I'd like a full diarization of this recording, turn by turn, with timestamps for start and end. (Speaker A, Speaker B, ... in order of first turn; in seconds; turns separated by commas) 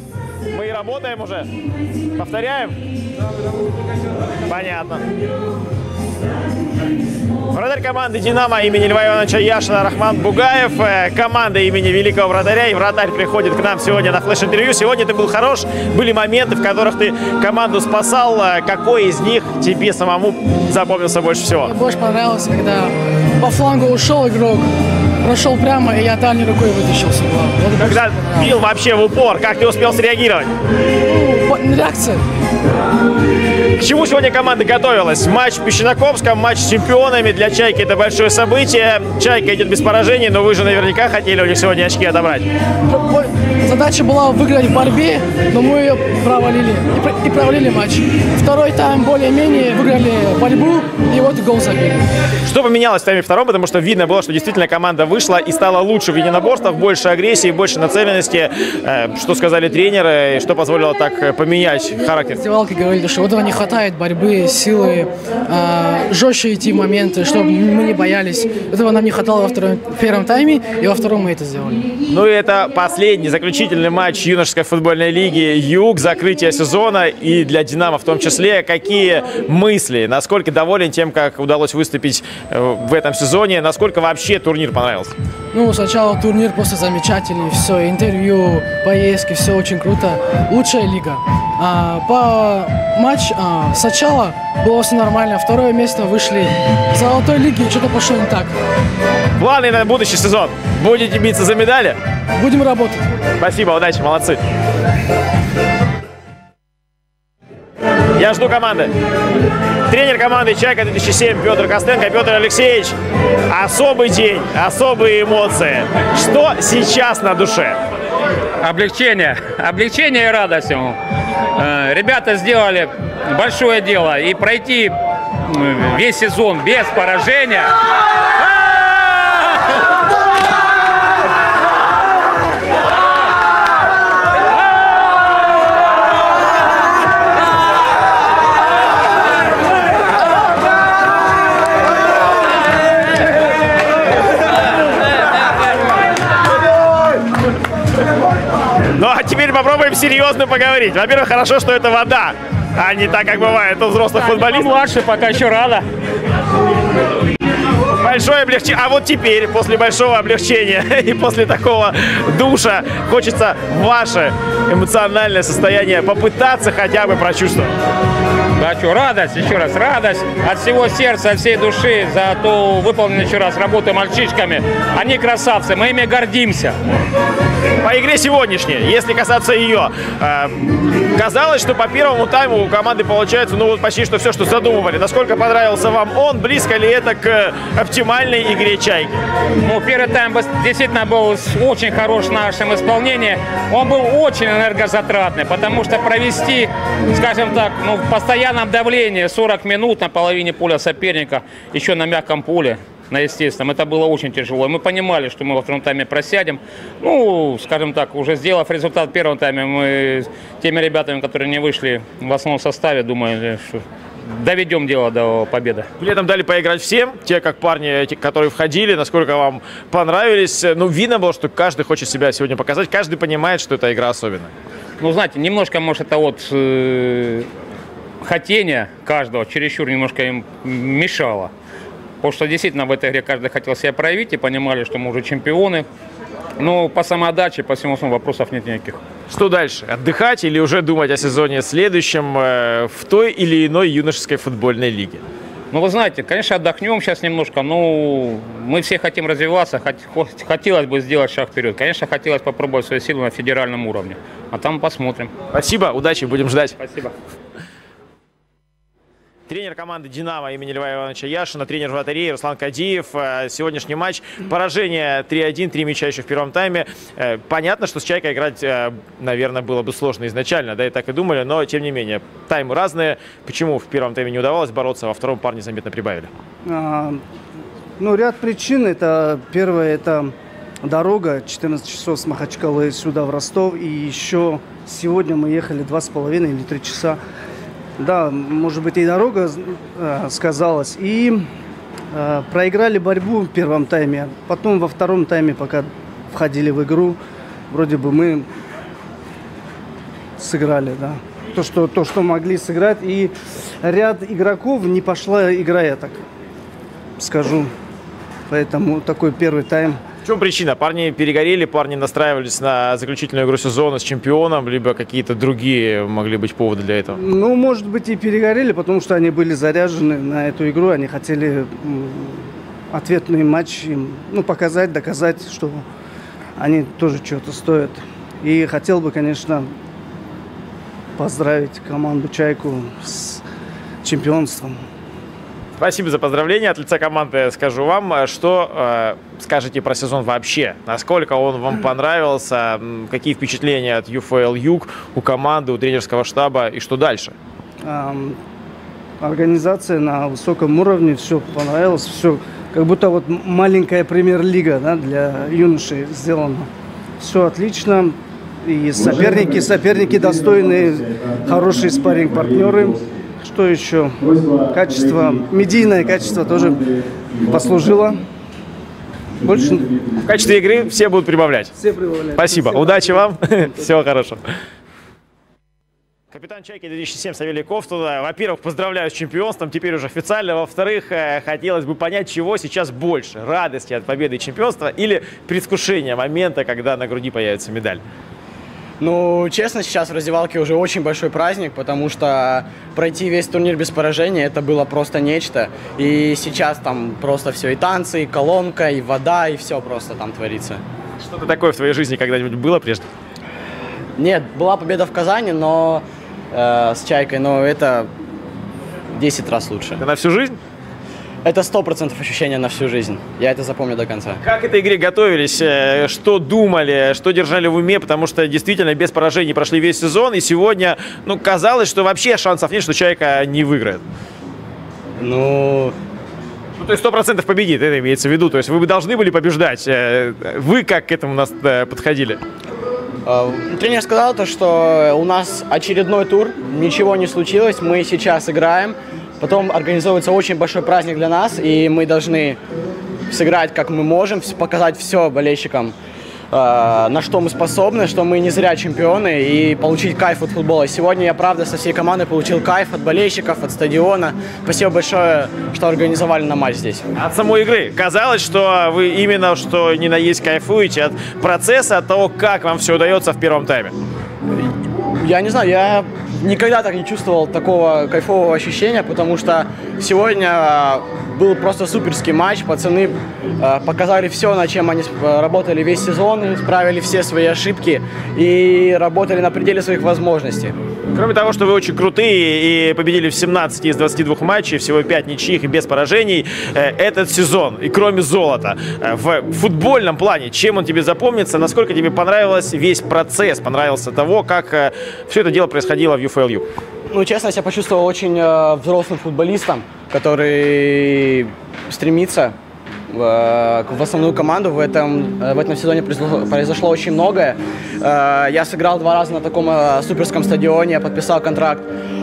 Speaker A: 0.5-1.5, Speaker A: 2.2-2.8, Speaker A: 4.5-5.0, Speaker A: 7.5-21.7, Speaker B: 21.6-24.7, Speaker B: 25.2-28.6, Speaker A: 27.8-30.5, Speaker B: 31.1-32.2, Speaker A: 33.8-42.5, Speaker B: 42.9-52.1, Speaker A: 52.5-62.4, Speaker B: 62.4-71.9, Speaker A: 72.1-85.1, Speaker B: 85.5-98.5, Speaker A: 99.4-102.0, Speaker B: 102.4-103.0, Speaker A: 103.4-104.4, Speaker A: 108.2-108.9, Speaker A: 109.9-113.0, Speaker A: 113.5-117.8, Speaker C: 118.6-121.0, Speaker C: 121.6-125.0, Speaker C: 125.5-127.7, Speaker A: 148.9-154.8, Speaker C: 154.1-155.8, Speaker A: 158.0-167.7, Speaker C: 168.6-176.8, Speaker A: 177.8-180.5, Speaker A: 181.2-189.2, Speaker C: 189.6-215.9, Speaker A: 216.0-224.5, Speaker C: 225.0-227.5, Speaker C: 228.2-231.5, Speaker C: 232.2-235.9, Speaker C: 236.6-239.0, Speaker A: 239.3-245.2, Speaker C: 245.7-255.3, Speaker A: 255.5-256.8, Speaker C: 256.8-257.1, Speaker A: 259.5-276.3, Speaker D: 276.6-277.2, Speaker D: 278.0-287.2, Speaker D: 288.0-291.4, Speaker D: 292.1-297.2, Speaker D: 297.7-298.5, Speaker D: 300.4-303.3, Speaker D: 303.8-306.2, Speaker D: 307.2-307.7, Speaker D: 308.5-310.0, Speaker A: 310.2-317.2, Speaker D: 317.1-325.9, Speaker D: 326.6-329.7, Speaker D: 331.2-333.4, Speaker D: 334.0-334.8, Speaker A: 335.8-347.4, Speaker D: 347.8-348.4, Speaker D: 349.2-356.7, Speaker D: 357.2-366.9, Speaker D: 367.4-368.2, Speaker D: 369.4-369.9, Speaker A: 370.2-371.7, Speaker D: 371.8-373.7, Speaker A: 372.4-374.4, Speaker A: 376.3-388.0, Speaker E: 389.0-400.8, Speaker A: 401.2-403.1, Speaker E: 404.2-408.1, Speaker E: 409.1-410.0, Speaker A: 410.0-410.6, Speaker E: 411.4-414.4, Speaker A: 414.4-424.0, Speaker E: 425.2-425.9, Speaker A: 426.8-432.4, Speaker E: 433.2-442.6, Speaker E: 443.3-445.9, Speaker E: 446.5-457.1, Speaker A: 457.2-463.9, Speaker E: 464.5-480.8, Speaker A: 481.1-496.7, Speaker E: 497.1-502.6, Speaker E: 503.1-511.9